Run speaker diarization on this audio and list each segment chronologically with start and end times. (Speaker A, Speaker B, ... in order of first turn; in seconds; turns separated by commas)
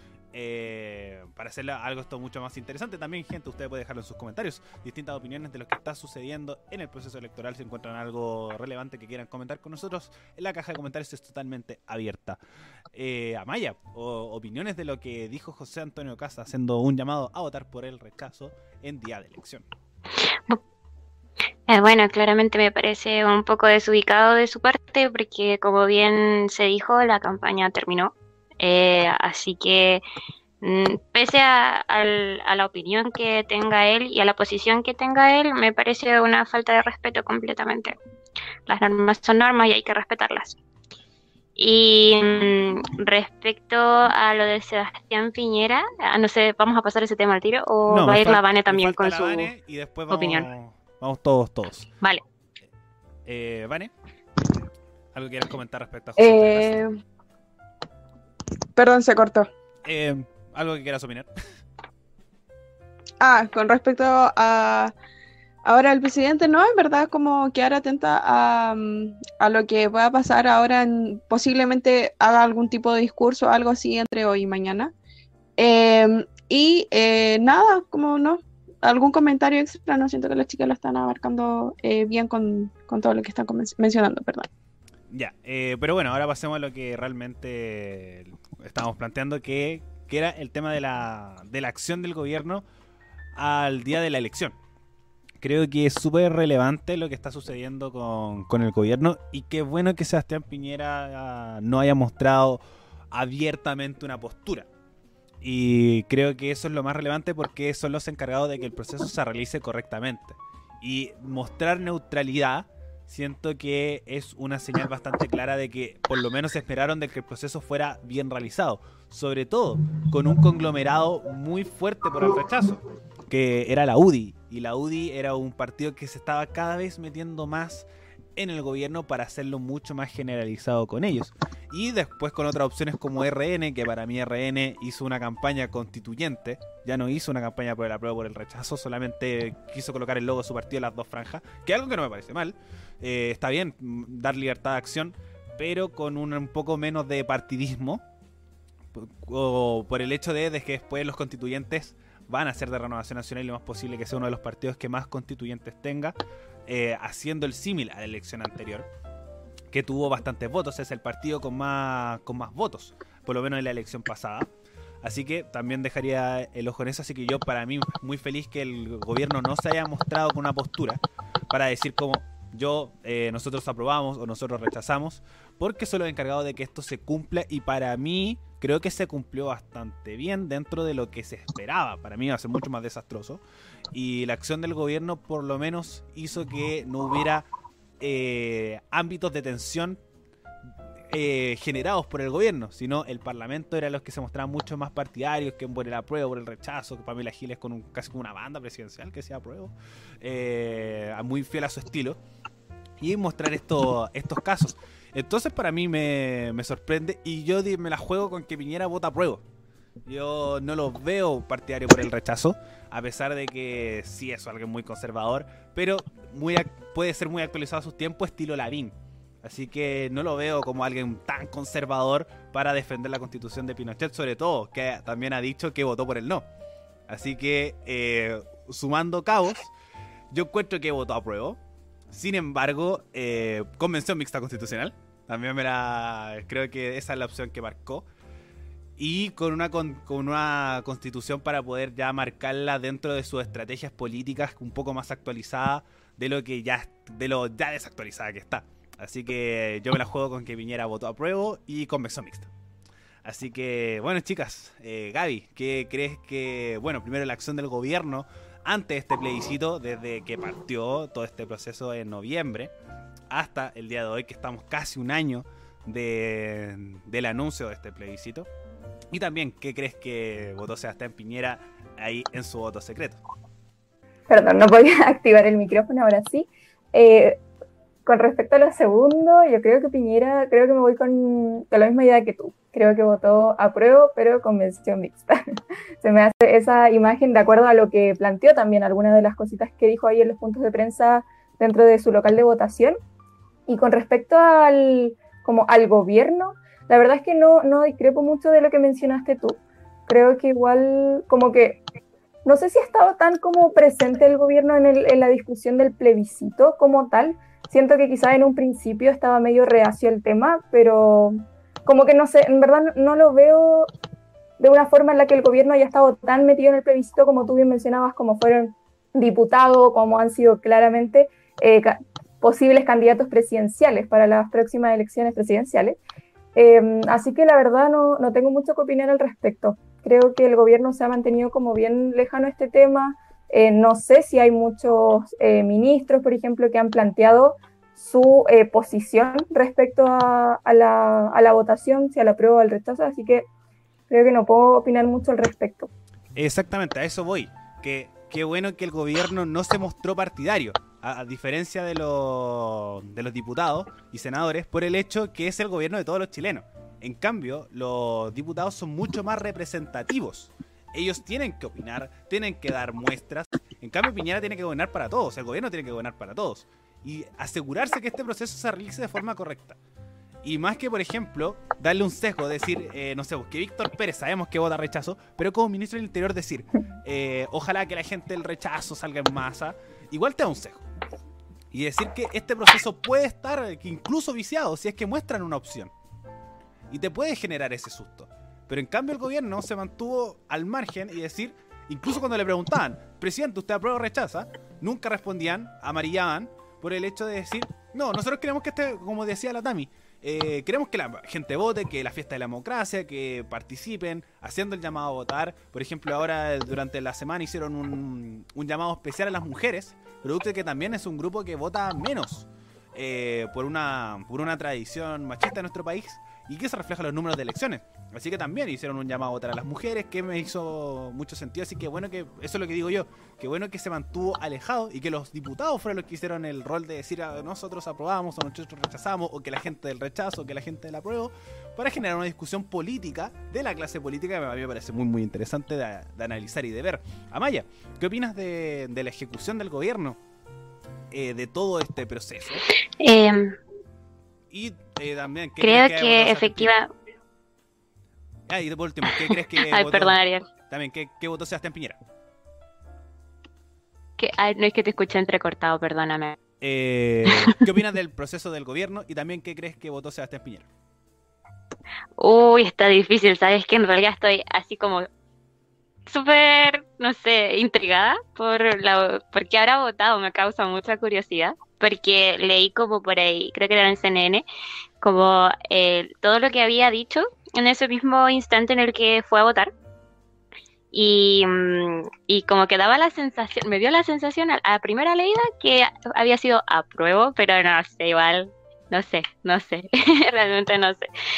Speaker A: 0.3-12.4, Speaker A: 12.9-19.6, Speaker B: 20.2-20.6, Speaker B: 21.7-30.0, Speaker B: 30.6-38.0, Speaker B: 38.7-40.6, Speaker B: 41.6-49.5, Speaker A: 47.9-51.9, Speaker B: 50.1-50.5, Speaker A: 53.3-53.9, Speaker A: 55.1-56.8, Speaker C: 56.2-56.9, Speaker C: 58.8-59.5, Speaker A: 59.9-61.3, Speaker C: 63.2-64.9, Speaker C: 65.7-74.9, Speaker C: 75.6-84.5, Speaker A: 85.1-92.6, Speaker A: 93.4-94.5, Speaker A: 95.4-102.6, Speaker A: 103.1-104.7, Speaker A: 105.4-148.0, Speaker A: 148.9-156.2, Speaker A: 156.7-158.9, Speaker A: 159.7-164.5, Speaker A: 165.0-183.4, Speaker A: 183.9-187.4, Speaker A: 188.0-190.0, Speaker A: 191.1-202.2, Speaker A: 203.0-209.4, Speaker A: 210.1-226.5, Speaker A: 227.1-229.7, Speaker A: 230.3-231.6, Speaker A: 232.1-238.1, Speaker A: 239.0-252.5, Speaker A: 253.2-262.7, Speaker A: 263.3-268.5, Speaker A: 269.1-273.2, Speaker D: 274.3-277.4, Speaker D: 278.1-285.4, Speaker D: 286.0-293.0, Speaker D: 293.7-301.8, Speaker D: 302.4-313.9, Speaker D: 314.6-326.0, Speaker D: 326.6-343.5, Speaker D: 344.1-345.9, Speaker A: 346.4-369.8, Speaker A: 370.4-380.9, Speaker A: 381.7-385.9, Speaker A: 386.9-440.2, Speaker A: 441.1-442.6, Speaker B: 443.0-443.6, Speaker A: 444.5-446.7, Speaker B: 445.6-446.9, Speaker A: 448.5-452.0, Speaker B: 449.1-450.5, Speaker B: 454.2-456.4, Speaker A: 456.6-460.7, Speaker B: 457.3-457.6, Speaker B: 462.2-465.1, Speaker B: 466.1-474.4, Speaker B: 475.0-479.7, Speaker B: 480.9-491.1